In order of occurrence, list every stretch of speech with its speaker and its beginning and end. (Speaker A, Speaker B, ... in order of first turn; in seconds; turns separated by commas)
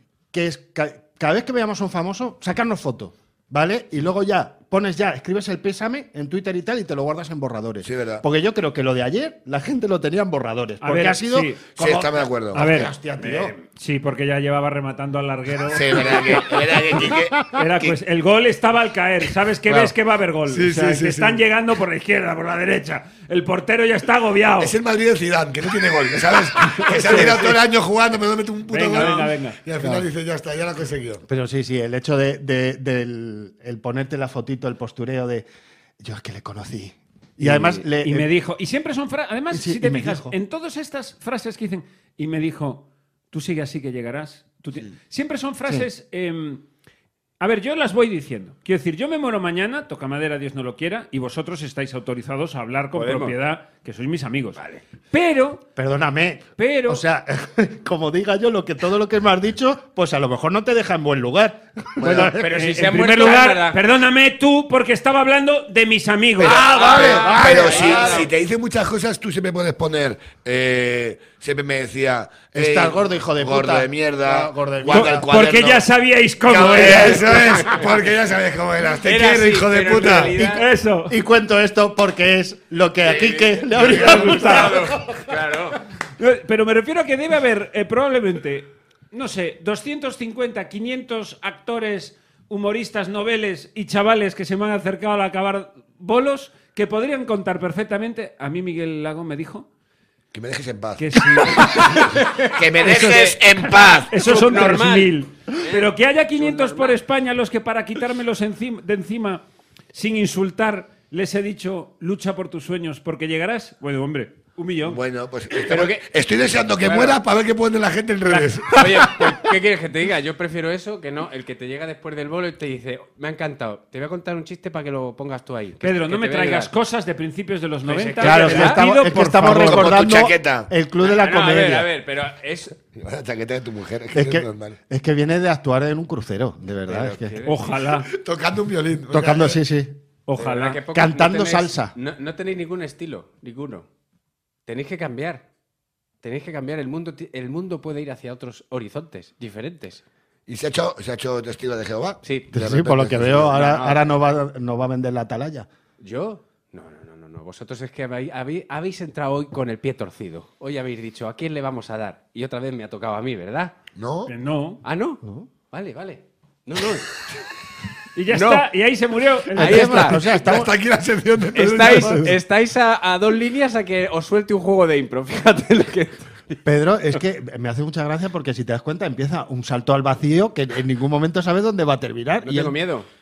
Speaker A: 0.3-13.5, Speaker B: 7.8-8.2, Speaker C: 10.8-11.6, Speaker B: 11.8-12.8, Speaker C: 12.5-12.9, Speaker D: 13.2-13.6, Speaker C: 13.7-16.5, Speaker B: 15.7-18.0, Speaker A: 17.1-17.4, Speaker C: 17.5-24.8, Speaker B: 19.7-19.9, Speaker B: 20.5-21.4, Speaker B: 24.6-31.2, Speaker A: 27.0-27.4, Speaker C: 28.7-29.6, Speaker A: 29.8-30.1, Speaker A: 31.3-35.5, Speaker A: 36.0-38.3, Speaker C: 37.4-46.6, Speaker A: 39.5-40.3, Speaker C: 47.4-54.6, Speaker D: 52.9-53.4, Speaker C: 55.1-55.6, Speaker A: 55.8-62.6, Speaker C: 56.6-57.0, Speaker C: 62.0-66.6, Speaker D: 62.1-63.8, Speaker B: 66.4-75.8, Speaker A: 66.4-68.3, Speaker D: 66.4-68.3, Speaker A: 72.5-75.3, Speaker C: 74.9-77.6, Speaker B: 76.5-80.3, Speaker A: 76.7-77.4, Speaker D: 79.0-80.6, Speaker C: 80.5-81.2, Speaker A: 81.1-85.2, Speaker D: 83.0-85.8, Speaker C: 83.8-84.8, Speaker C: 86.2-99.7, Speaker B: 100.3-104.1, Speaker C: 101.0-102.2, Speaker D: 101.8-107.0, Speaker C: 103.6-115.0, Speaker B: 114.8-119.1, Speaker D: 115.6-116.0, Speaker D: 116.8-117.2, Speaker C: 118.3-118.6, Speaker D: 118.7-126.7, Speaker C: 125.8-130.0, Speaker D: 127.8-128.8, Speaker A: 128.2-131.9, Speaker B: 129.5-130.7, Speaker D: 131.0-132.8, Speaker B: 132.9-134.8, Speaker A: 134.1-137.4, Speaker D: 136.9-137.7, Speaker C: 137.4-138.1, Speaker B: 138.1-139.6, Speaker A: 139.1-140.0, Speaker C: 140.3-140.8, Speaker D: 140.4-143.9, Speaker A: 140.9-141.9, Speaker D: 144.7-145.4, Speaker D: 146.2-150.0, Speaker B: 150.5-153.6, Speaker D: 152.2-152.5, Speaker A: 152.5-155.7, Speaker D: 153.4-154.0, Speaker D: 156.0-163.7, Speaker B: 164.0-164.3, Speaker C: 164.3-164.8, Speaker D: 164.8-167.1, Speaker A: 165.2-165.5, Speaker C: 168.2-170.2, Speaker D: 168.3-168.7, Speaker D: 169.5-170.2, Speaker A: 169.5-170.7, Speaker B: 170.2-172.3, Speaker D: 171.5-176.6, Speaker A: 171.8-172.4, Speaker A: 176.6-182.8, Speaker D: 182.4-183.1